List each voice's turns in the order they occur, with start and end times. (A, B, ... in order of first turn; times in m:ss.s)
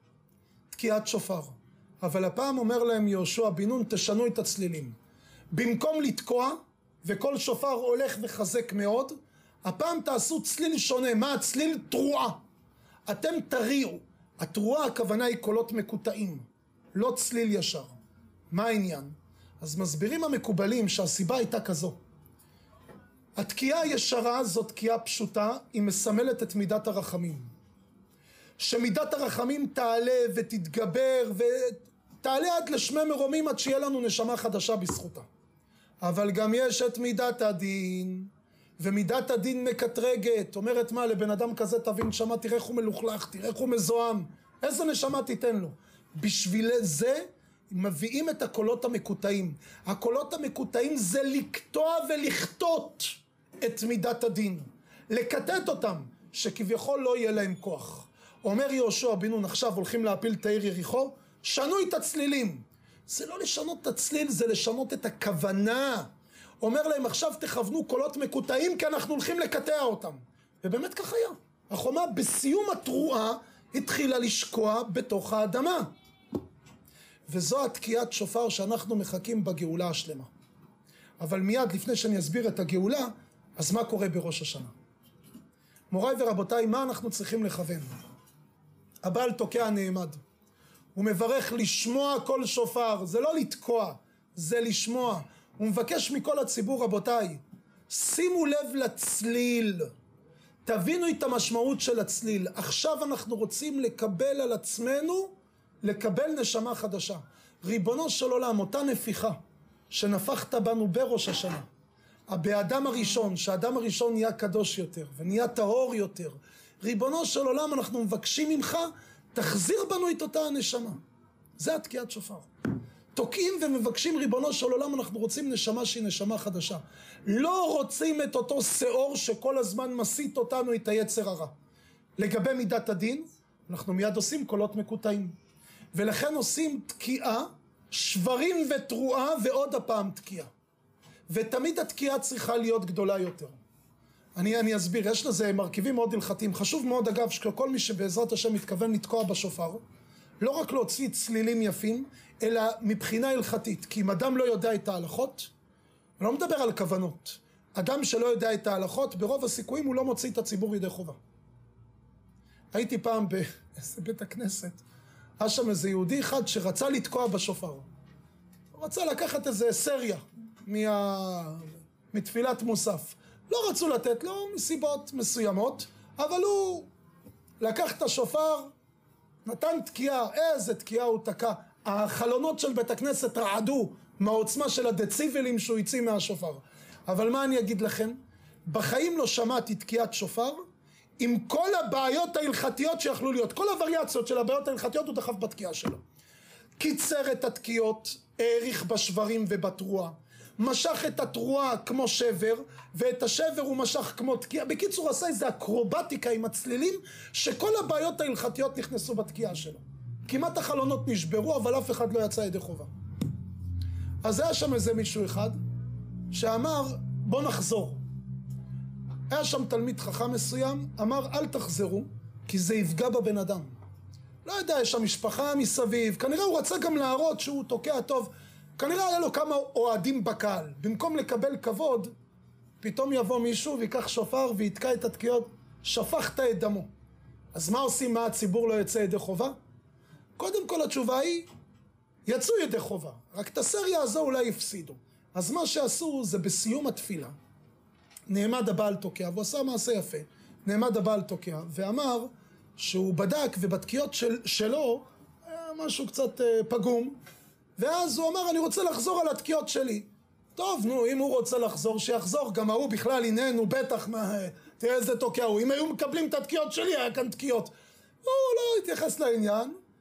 0:00.7-0:04.9 A
0:05.5-0:12.4 A
0:13.1-0:17.9 A
0:18.5-0:22.0 A
0:23.4-0:27.5 A
0:28.6-0:35.2 A
0:36.0-1:06.1 A
1:06.6-1:15.9 A
1:17.3-1:20.3 A
1:21.2-1:24.7 A
1:25.9-1:27.9 A
1:29.0-1:30.2 A
1:30.9-1:39.9 A
1:40.6-1:49.4 A
1:49.9-1:51.6 A
1:52.3-2:01.0 A
2:01.6-2:02.5 A
2:03.1-2:11.5 A
2:12.2-2:15.3 A
2:15.9-2:20.5 A
2:21.3-2:23.6 A
2:24.4-2:29.8 A
2:30.4-2:35.5 A
2:36.2-2:41.2 A
2:42.7-2:44.8 A
2:45.4-2:47.8 A
2:48.7-2:56.9 A
2:57.6-2:58.7 A
2:59.4-3:10.6 A
3:11.2-3:16.0 A
3:16.8-3:32.9 A
3:34.2-3:35.6 A
3:36.3-3:38.0 A
3:39.3-3:43.7 A
3:44.4-3:52.1 A
3:52.8-3:56.9 A
3:57.5-3:59.5 A
4:00.4-4:01.4 A
4:02.2-4:07.3 A
4:08.3-4:17.2 A
4:17.8-4:27.7 A
4:28.2-4:29.7 A